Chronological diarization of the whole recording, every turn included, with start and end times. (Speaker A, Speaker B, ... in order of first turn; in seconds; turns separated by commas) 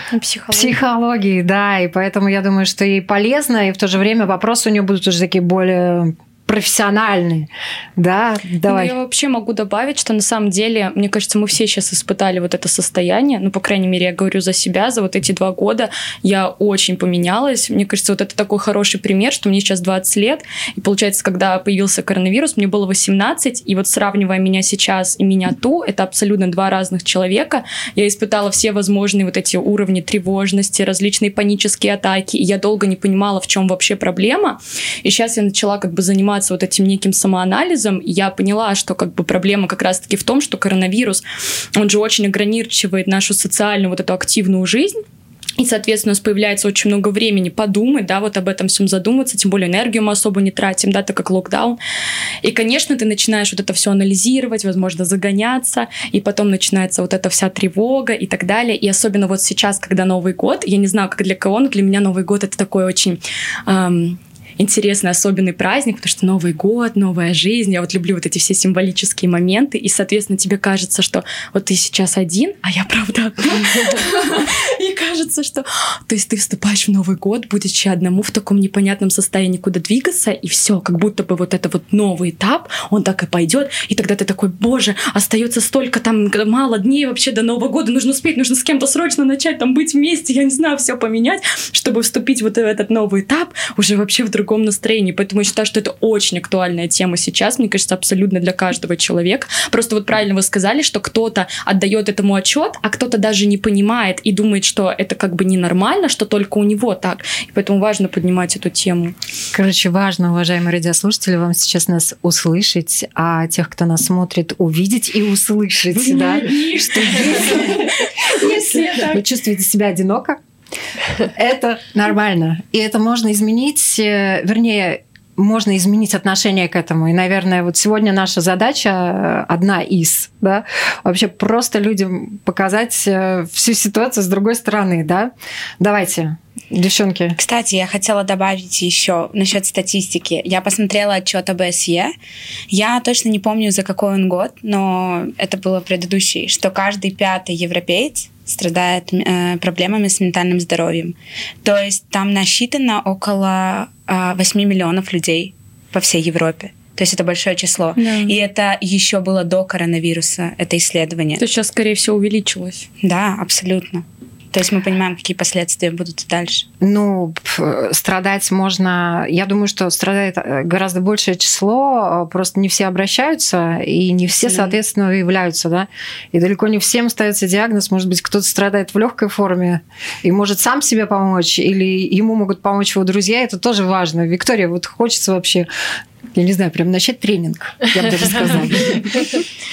Speaker A: 0.1-0.8, Speaker B: 0.5-8.9, Speaker A: 8.7-41.2, Speaker A: 41.8-45.0, Speaker A: 45.6-51.8, Speaker A: 52.4-109.2, Speaker B: 109.5-120.4, Speaker A: 116.0-119.1, Speaker B: 121.3-137.4, Speaker C: 137.4-142.2, Speaker C: 142.7-161.4, Speaker A: 158.0-158.3, Speaker A: 161.4-162.9, Speaker C: 163.0-166.7, Speaker B: 166.8-185.7, Speaker B: 186.3-189.1